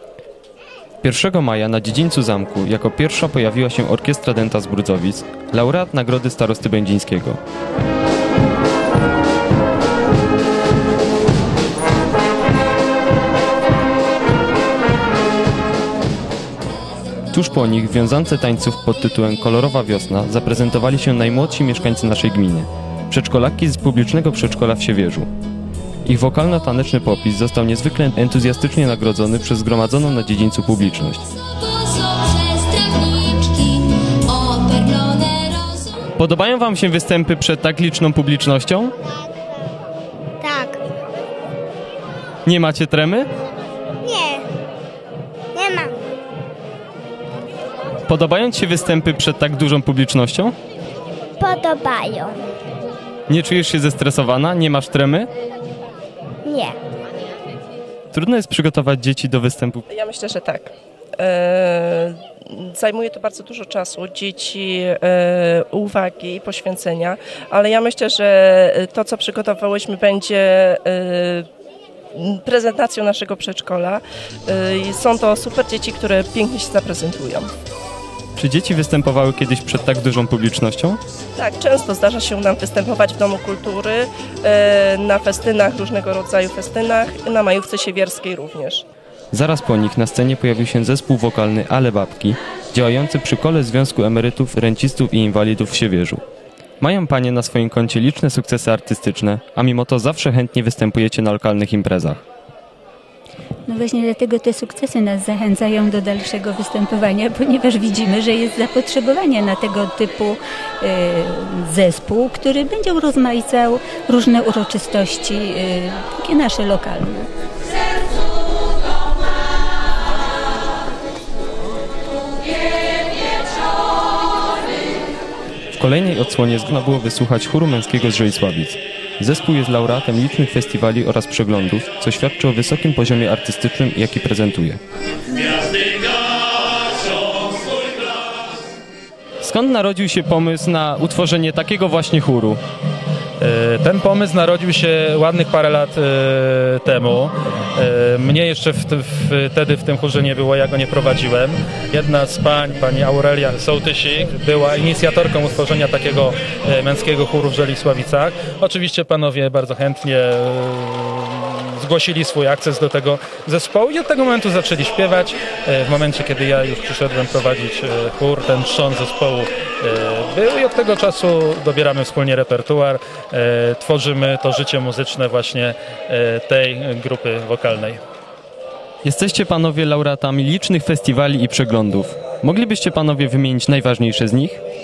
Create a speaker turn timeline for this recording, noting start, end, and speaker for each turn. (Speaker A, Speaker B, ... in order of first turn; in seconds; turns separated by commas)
Speaker A: 1.0-7.4, Speaker A: 17.3-25.3, Speaker A: 26.0-31.2, Speaker A: 36.1-38.9, Speaker B: 40.4-40.8, Speaker A: 42.4-43.3, Speaker B: 44.0-44.4, Speaker B: 45.5-46.0, Speaker A: 48.0-50.5, Speaker B: 51.4-52.4, Speaker A: 53.3-55.3, Speaker B: 56.4-56.8, Speaker A: 58.1-59.8, Speaker C: 59.9-71.5, Speaker C: 72.1-77.5, Speaker A: 78.3-81.0, Speaker C: 81.3-88.8, Speaker A: 89.3-96.2, Speaker A: 96.8-102.2, Speaker D: 103.7-117.3, Speaker A: 125.7-134.8, Speaker A: 139.4-142.6, Speaker E: 143.4-178.0, Speaker A: 179.0-184.6